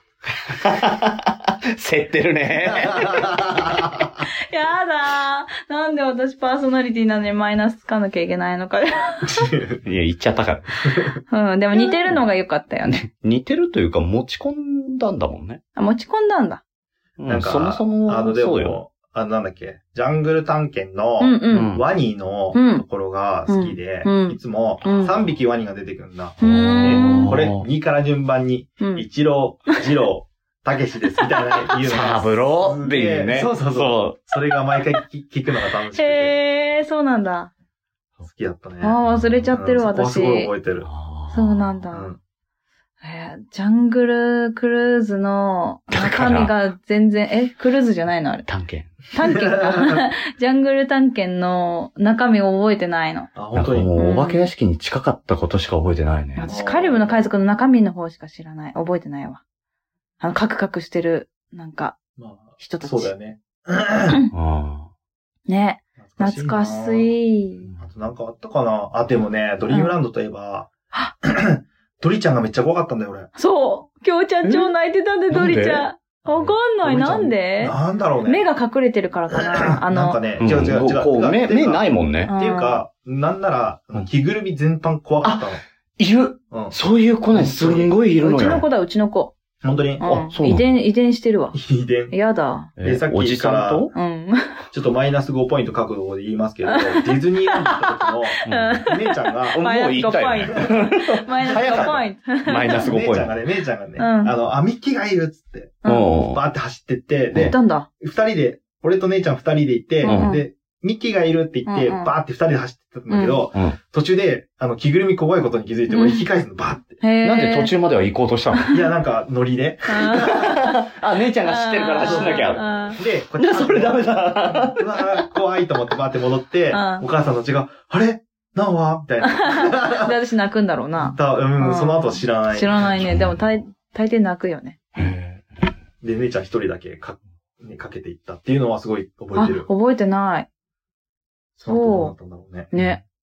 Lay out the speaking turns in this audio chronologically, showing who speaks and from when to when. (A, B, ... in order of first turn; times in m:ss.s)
0:00.5-0:03.8 A
0:02.7-0:03.7 B
0:04.5-0:09.3 C
0:09.2-0:09.8 B
0:09.8-0:10.8 A
0:11.3-0:13.0 C
0:11.8-0:12.2 A
0:12.8-0:15.6 A
0:15.8-0:16.6 C
0:17.2-0:18.8 A
0:17.3-0:36.4 B
0:21.2-0:21.8 C
0:21.5-0:21.8 A
0:22.5-0:22.8 C
0:23.5-0:25.2 C
0:26.4-0:27.4 C
0:26.4-0:27.7 A
0:28.8-0:29.1 C
0:31.8-0:34.2 A
0:36.0-0:37.5 C
0:38.2-0:39.0 B
0:38.8-0:40.5 C
0:39.1-0:39.5 A
0:39.5-0:40.9 B
0:40.8-0:41.8 A
0:41.3-0:42.1 C
0:41.9-0:42.2 B
0:43.0-0:48.5 C
0:45.9-0:46.5 A
0:48.5-0:48.9 A
0:49.1-0:53.3 C
0:49.2-0:50.0 B
0:53.4-0:53.9 B
0:53.5-0:56.5 A
0:54.0-0:54.5 C
0:56.4-0:59.4 C
0:56.4-0:57.2 B
1:00.2-1:02.0 C
1:02.2-1:04.2 B
1:02.6-1:03.1 C
1:04.3-1:04.9 A
1:05.5-1:07.7 C
1:06.0-1:07.1 B
1:07.6-1:07.9 A
1:07.8-1:10.7 B
1:09.7-1:10.0 C
1:11.2-1:13.3 B
1:13.4-1:20.2 C
1:14.4-1:14.7 A
1:15.3-1:15.9 A
1:16.3-1:18.5 B
1:19.3-1:25.6 B
1:20.4-1:22.3 A
1:22.3-1:22.8 C
1:25.2-1:28.6 A
1:27.3-1:27.9 B
1:28.2-1:29.4 C
1:29.6-1:30.1 B
1:30.0-1:31.6 C
1:30.0-1:30.7 A
1:31.5-1:32.2 B
1:32.1-1:32.7 C
1:32.8-1:33.9 A
1:32.8-1:33.9 B
1:33.9-1:34.6 C
1:34.7-1:39.6 B
1:36.7-1:37.8 C
1:38.4-1:42.9 C
1:38.5-1:39.0 A
1:39.5-1:43.3 A
1:40.5-1:40.9 B
1:41.4-1:42.1 B
1:42.8-1:57.0 B
1:44.0-1:44.3 C
1:45.8-1:46.1 C
1:45.8-1:46.4 A
1:47.4-1:47.9 C
1:50.0-1:50.4 C
1:50.1-1:50.4 A
1:51.7-1:52.1 C
1:53.1-1:53.4 C
1:53.5-1:53.8 A
1:55.9-1:56.2 C
1:57.0-1:57.7 C
1:57.2-1:58.9 A
1:58.7-2:00.5 B
1:59.9-2:00.8 C
2:00.0-2:05.3 A
2:01.5-2:03.0 C
2:02.1-2:10.2 B
2:06.7-2:07.0 C
2:09.3-2:14.8 C
2:11.0-2:13.0 B
2:12.9-2:13.4 A
2:15.0-2:15.5 A
2:16.0-2:19.7 B
2:19.4-2:20.5 C
2:21.6-2:22.7 B
2:21.7-2:22.1 C
2:22.7-2:23.0 C